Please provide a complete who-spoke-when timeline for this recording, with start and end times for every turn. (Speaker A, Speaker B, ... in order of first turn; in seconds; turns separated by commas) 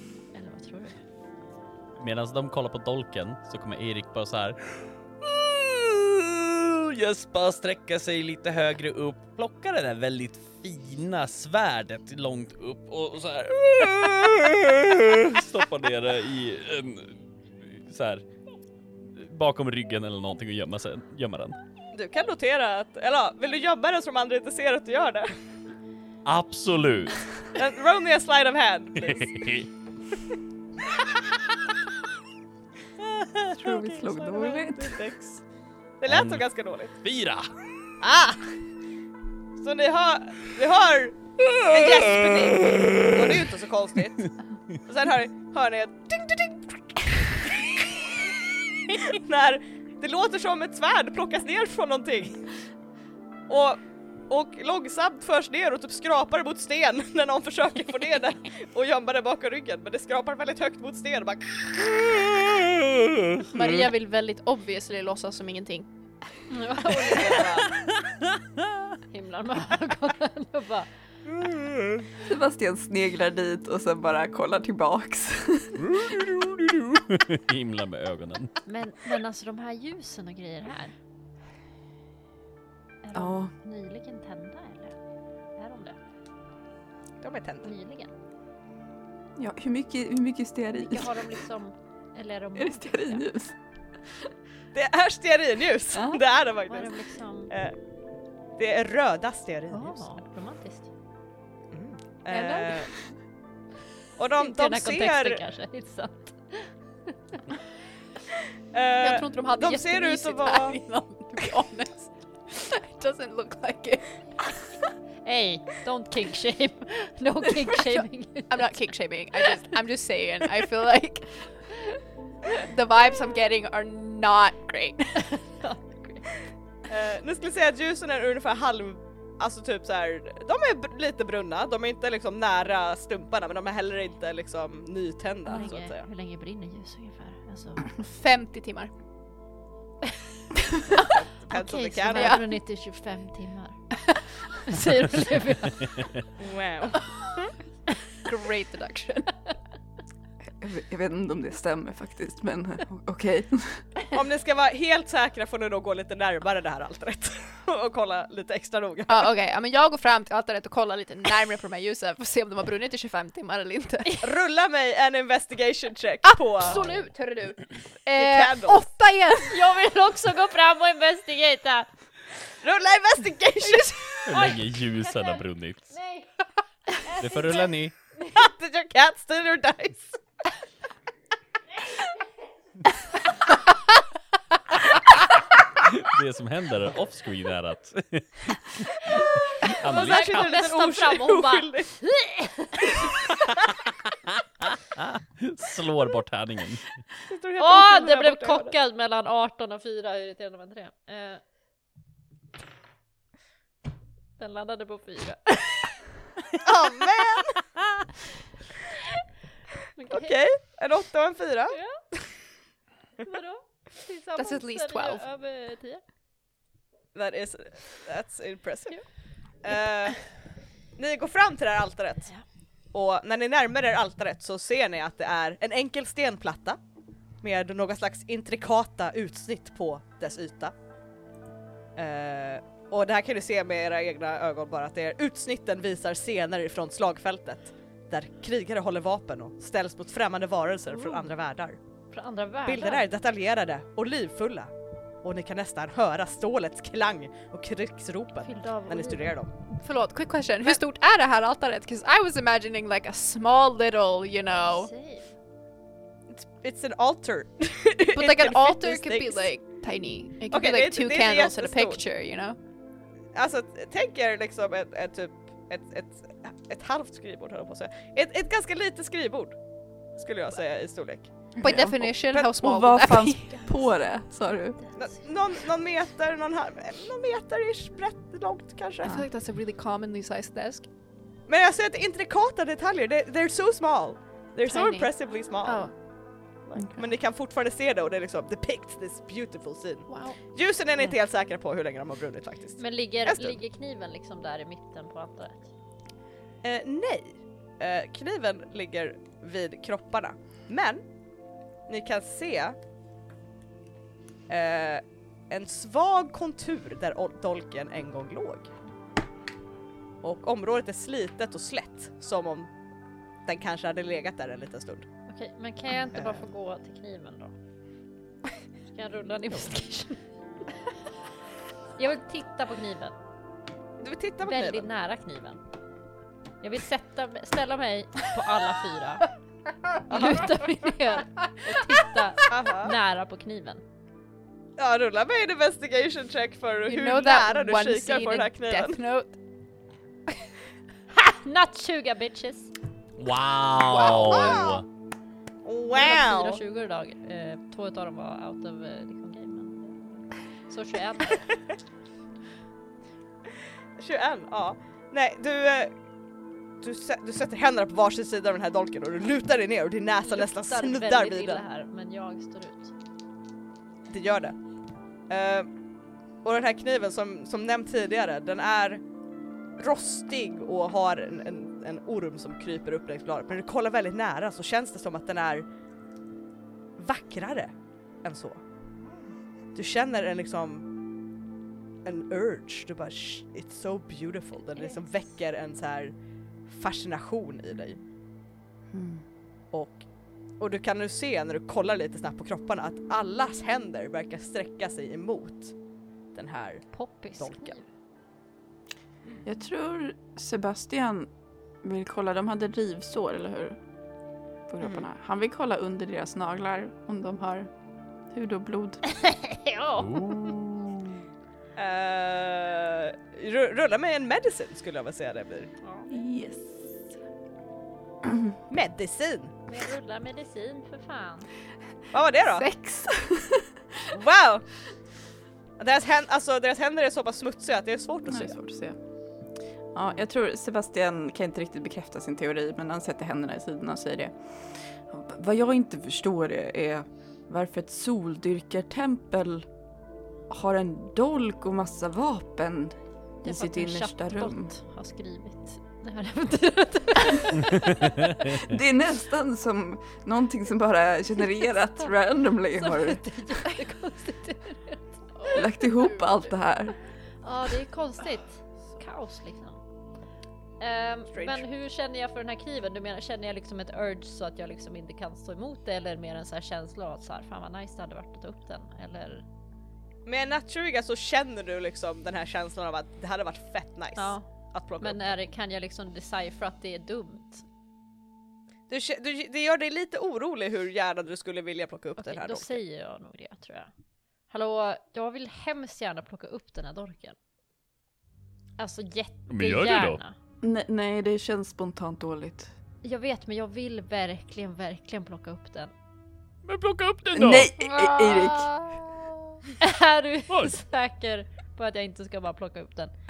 Speaker A: 0.3-1.0, Speaker B: 1.9-18.2, Speaker B: 19.1-21.6, Speaker C: 21.9-25.3, Speaker B: 26.2-27.2, Speaker C: 27.6-29.4, Speaker B: 29.0-29.7, Speaker C: 33.5-35.4, Speaker D: 33.5-35.0, Speaker C: 36.0-36.9, Speaker B: 36.1-36.4, Speaker B: 37.0-37.5, Speaker C: 38.0-38.5, Speaker C: 39.6-48.1, Speaker C: 48.9-52.5, Speaker C: 53.5-62.4, Speaker E: 63.5-65.9, Speaker A: 66.5-67.7, Speaker C: 66.9-67.6, Speaker A: 69.1-70.9, Speaker D: 72.2-75.8, Speaker B: 76.0-78.5, Speaker F: 76.1-76.6, Speaker A: 78.7-80.9, Speaker A: 83.0-84.9, Speaker D: 83.1-83.5, Speaker A: 85.5-86.0, Speaker C: 87.2-87.7, Speaker A: 87.6-88.1, Speaker D: 89.4-91.3, Speaker A: 90.7-93.2, Speaker D: 92.5-93.5, Speaker C: 94.7-96.9, Speaker D: 95.9-96.2, Speaker A: 96.7-97.5, Speaker C: 97.5-97.8, Speaker C: 98.6-100.0, Speaker A: 99.7-100.9, Speaker C: 101.7-102.9, Speaker E: 102.3-102.8, Speaker C: 104.2-105.4, Speaker A: 104.4-106.7, Speaker C: 108.7-110.8, Speaker E: 109.0-114.6, Speaker A: 115.2-118.7, Speaker E: 118.5-121.3, Speaker E: 122.5-125.3, Speaker A: 125.3-126.2, Speaker C: 126.9-136.1, Speaker A: 135.5-137.9, Speaker E: 137.9-138.9, Speaker C: 140.9-142.4, Speaker A: 141.5-143.8, Speaker E: 142.1-142.5, Speaker A: 144.5-146.2, Speaker C: 146.4-147.5, Speaker E: 148.2-149.3, Speaker D: 150.6-153.8, Speaker C: 154.1-159.3, Speaker E: 159.1-164.2, Speaker C: 164.2-166.8, Speaker E: 166.2-169.6, Speaker A: 166.7-167.0, Speaker C: 168.2-168.8, Speaker A: 169.5-171.9, Speaker C: 172.6-174.5, Speaker E: 173.6-173.9, Speaker B: 174.2-175.9, Speaker A: 174.4-176.3, Speaker A: 177.0-178.3, Speaker B: 177.2-177.9, Speaker C: 178.3-180.2, Speaker B: 185.8-188.9, Speaker A: 189.1-193.2, Speaker B: 189.6-190.6, Speaker C: 189.6-191.9, Speaker B: 194.6-196.8, Speaker C: 197.3-198.7, Speaker A: 197.6-201.4, Speaker A: 204.4-206.0, Speaker C: 206.6-207.6, Speaker A: 209.9-210.4, Speaker C: 210.1-211.8, Speaker A: 211.7-212.0, Speaker A: 213.2-216.0, Speaker E: 214.4-215.2, Speaker C: 217.1-219.0, Speaker C: 219.6-220.2, Speaker C: 220.9-222.3, Speaker C: 222.9-226.8, Speaker C: 227.4-230.7, Speaker C: 231.9-241.8, Speaker A: 240.9-241.2, Speaker A: 242.1-243.1, Speaker C: 242.7-244.7, Speaker C: 245.2-249.5, Speaker A: 248.4-249.4, Speaker E: 249.7-254.9, Speaker A: 254.6-255.3, Speaker C: 256.3-259.5, Speaker E: 258.1-262.6, Speaker C: 260.5-262.0, Speaker C: 263.3-269.6, Speaker C: 270.2-271.3, Speaker E: 271.6-273.7, Speaker D: 271.6-274.8, Speaker C: 274.9-279.1, Speaker E: 279.0-280.9, Speaker C: 281.5-285.9, Speaker E: 284.6-285.1, Speaker E: 285.6-285.9, Speaker C: 286.7-293.6, Speaker E: 290.1-290.4, Speaker A: 292.8-295.7, Speaker C: 296.6-301.0, Speaker C: 301.9-302.8, Speaker C: 304.5-308.7, Speaker C: 310.2-312.7, Speaker C: 313.4-315.1, Speaker A: 315.3-317.5, Speaker C: 316.1-316.5, Speaker A: 318.9-320.2, Speaker A: 322.0-323.1, Speaker C: 324.0-324.9, Speaker A: 324.4-325.6, Speaker A: 326.6-329.2, Speaker A: 330.1-333.8, Speaker C: 330.1-330.4, Speaker C: 332.5-332.9, Speaker C: 334.8-339.0, Speaker E: 336.9-339.4, Speaker A: 341.1-342.7, Speaker B: 343.2-344.8, Speaker C: 344.0-344.8, Speaker E: 344.0-344.6, Speaker C: 345.6-346.6, Speaker A: 345.9-351.4, Speaker C: 354.0-355.9, Speaker C: 356.8-361.6, Speaker A: 360.2-362.9, Speaker C: 364.1-364.6, Speaker C: 365.3-365.7, Speaker C: 366.4-369.0, Speaker C: 369.8-375.6, Speaker C: 377.0-377.7, Speaker C: 378.2-378.6, Speaker C: 379.7-380.9, Speaker C: 382.0-386.1, Speaker A: 384.7-385.0, Speaker C: 386.7-388.0, Speaker D: 388.9-389.2, Speaker C: 389.7-390.0, Speaker C: 390.6-395.7, Speaker C: 396.3-396.8, Speaker A: 396.9-397.8, Speaker C: 397.4-397.8, Speaker D: 399.4-401.3, Speaker D: 401.8-403.8, Speaker D: 404.7-407.7, Speaker D: 408.3-409.0, Speaker A: 409.1-410.2, Speaker F: 410.0-410.8, Speaker C: 411.8-415.7, Speaker A: 415.8-416.1, Speaker D: 416.1-417.1, Speaker C: 418.7-419.5, Speaker A: 419.7-421.5, Speaker C: 422.1-422.7, Speaker D: 422.6-423.7, Speaker C: 424.1-424.6, Speaker C: 425.8-428.5, Speaker D: 428.3-428.9, Speaker D: 429.9-434.3, Speaker D: 435.0-439.7, Speaker D: 440.5-444.7, Speaker A: 443.4-448.3, Speaker D: 448.6-453.2, Speaker A: 452.8-455.4, Speaker E: 455.4-456.2, Speaker D: 455.5-456.9, Speaker A: 457.4-459.8, Speaker A: 460.8-469.4, Speaker C: 461.3-461.6, Speaker C: 470.2-475.3, Speaker A: 474.1-474.4, Speaker A: 475.0-477.6, Speaker C: 478.9-482.8, Speaker A: 482.2-483.9, Speaker A: 484.5-487.4, Speaker A: 488.8-490.3, Speaker F: 489.5-490.2, Speaker D: 490.6-492.7, Speaker A: 493.0-495.9, Speaker F: 496.6-497.7, Speaker D: 497.3-498.7, Speaker E: 497.8-499.1, Speaker A: 499.8-503.1